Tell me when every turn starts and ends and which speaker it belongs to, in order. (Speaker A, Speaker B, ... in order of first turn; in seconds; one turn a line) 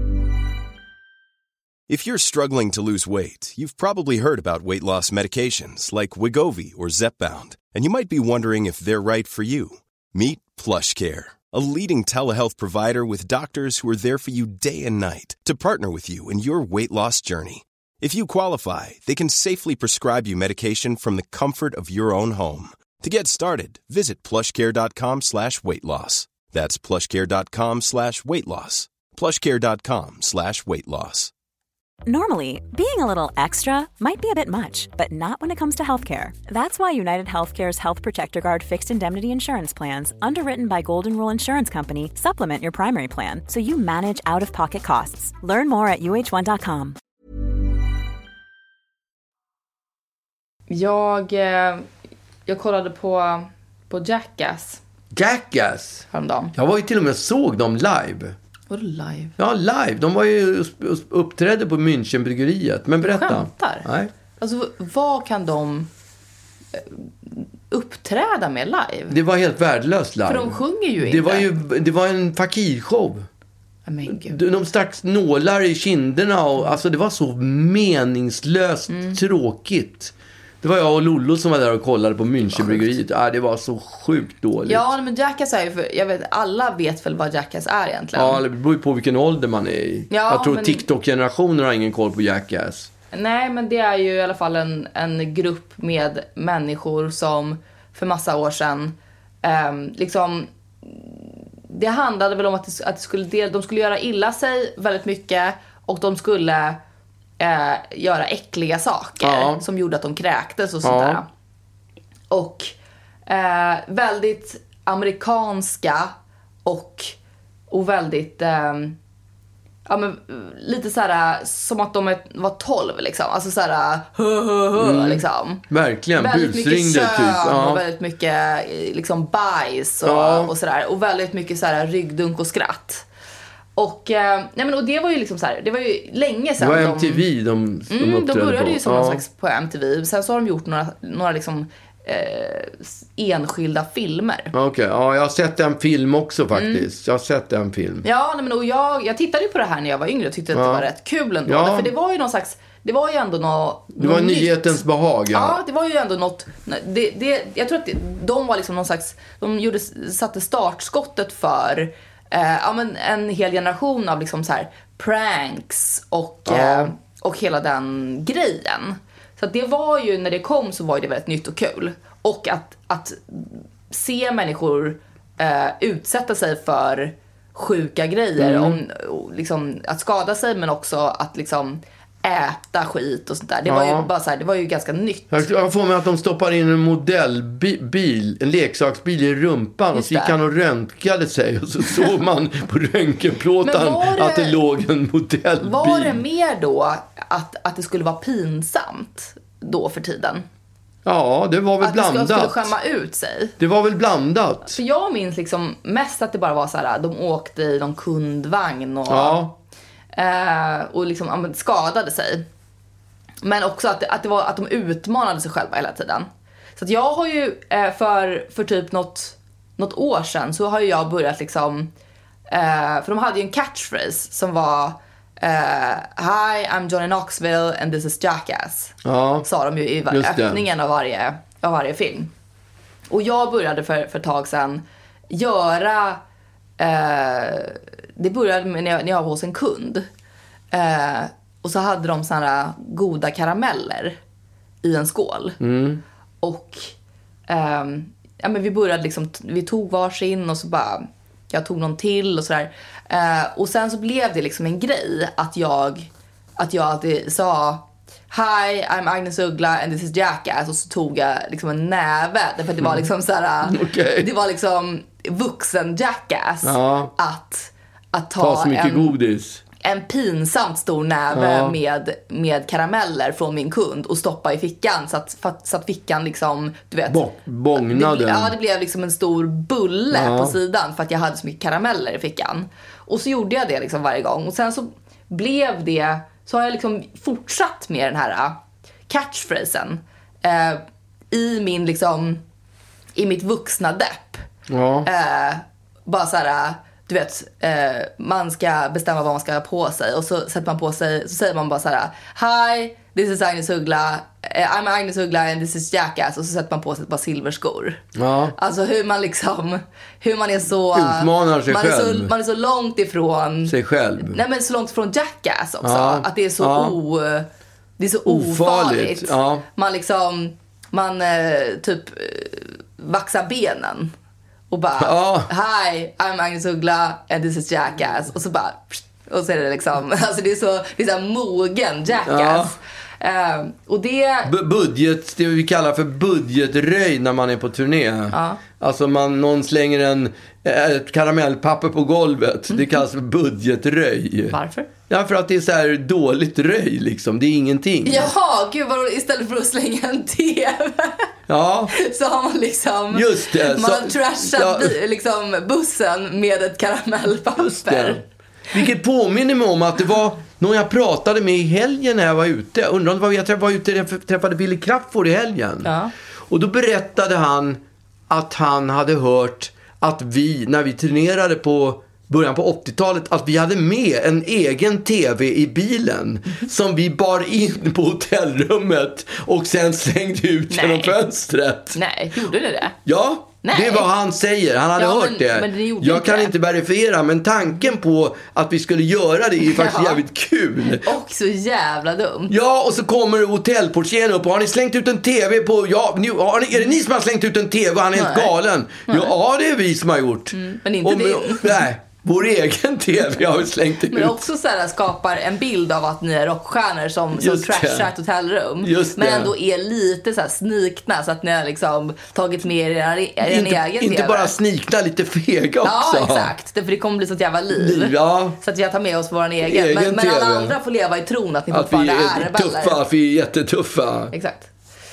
Speaker A: 1.9-31.3
Speaker B: 32.1-47.0
Speaker C: 50.7-51.9
Speaker C: 52.5-54.8
Speaker D: 55.1-58.4
Speaker C: 56.1-56.5
Speaker C: 58.7-59.4
Speaker D: 59.4-64.1
Speaker C: 63.1-63.9
Speaker C: 64.4-65.9
Speaker C: 66.8-69.2
Speaker D: 69.1-73.3
Speaker C: 70.3-71.5
Speaker C: 73.9-74.4
Speaker D: 74.1-84.8
Speaker C: 78.9-79.2
Speaker C: 82.6-82.9
Speaker C: 84.7-88.4
Speaker D: 88.2-92.9
Speaker C: 90.1-90.8
Speaker C: 93.1-106.8
Speaker C: 107.4-111.3
Speaker D: 109.2-109.6
Speaker D: 110.8-111.2
Speaker C: 112.3-112.7
Speaker C: 113.3-116.1
Speaker C: 116.7-117.1
Speaker C: 117.7-119.0
Speaker C: 119.9-125.6
Speaker D: 124.8-127.8
Speaker C: 126.2-133.1
Speaker D: 130.0-130.5
Speaker C: 133.8-137.2
Speaker D: 136.6-139.2
Speaker C: 137.9-144.5
Speaker D: 144.5-148.1
Speaker C: 146.5-146.8
Speaker C: 148.0-154.8
Speaker D: 150.5-150.9
Speaker D: 151.5-151.9
Speaker D: 153.9-155.6
Speaker C: 155.3-185.4
Speaker D: 166.5-166.9
Speaker D: 178.4-178.8
Speaker D: 183.7-184.1
Speaker D: 185.3-196.2
Speaker C: 189.9-190.3
Speaker C: 193.6-194.6
Speaker C: 195.6-200.5
Speaker D: 201.1-202.7
Speaker C: 201.8-203.6
Speaker D: 203.6-204.8
Speaker C: 204.7-209.4
Speaker D: 209.1-209.5
Speaker C: 210.2-212.4
Speaker C: 213.4-221.9
Speaker C: 222.5-232.3
Speaker D: 229.1-229.5
Speaker D: 230.1-230.6
Speaker C: 233.1-236.2
Speaker C: 236.8-240.1
Speaker C: 240.7-244.2
Speaker C: 244.8-245.6
Speaker D: 245.6-246.0
Speaker C: 246.4-246.9
Speaker C: 247.5-269.1
Speaker D: 263.7-264.3
Speaker D: 266.6-267.1
Speaker D: 268.4-269.6
Speaker C: 269.8-277.2
Speaker D: 271.3-271.8
Speaker D: 277.1-278.5
Speaker C: 277.8-292.4
Speaker D: 280.1-280.6
Speaker C: 293.2-294.4
Speaker D: 294.7-295.1
Speaker C: 295.1-308.0
Speaker D: 308.1-308.6
Speaker C: 308.6-317.5
Speaker D: 310.9-312.3
Speaker D: 313.7-314.4
Speaker D: 315.8-317.0
Speaker C: 318.0-324.1
Speaker D: 318.3-319.6
Speaker C: 324.7-334.5
Speaker D: 325.0-325.5
Speaker D: 332.3-332.8
Speaker D: 334.5-344.6
Speaker C: 338.3-338.6
Speaker C: 342.7-343.0
Speaker C: 344.5-344.9
Speaker D: 345.1-348.3
Speaker C: 348.1-351.3
Speaker D: 351.5-351.9
Speaker C: 351.9-358.2
Speaker D: 353.1-355.0
Speaker D: 357.6-365.9
Speaker C: 365.8-366.1
Speaker D: 366.5-382.0
Speaker C: 380.7-381.2
Speaker C: 381.9-383.0
Speaker D: 383.1-391.1
Speaker C: 383.6-384.1
Speaker C: 385.0-386.5
Speaker C: 389.6-390.2
Speaker C: 391.0-392.5
Speaker D: 392.5-404.4
Speaker C: 398.1-398.5
Speaker C: 399.1-399.3
Speaker C: 400.5-401.8
Speaker C: 404.1-414.6
Speaker D: 407.4-408.1
Speaker D: 408.8-409.5
Speaker D: 413.4-416.5
Speaker C: 415.8-423.0
Speaker D: 417.7-418.6
Speaker D: 419.6-420.8
Speaker D: 421.7-424.3
Speaker C: 424.3-424.7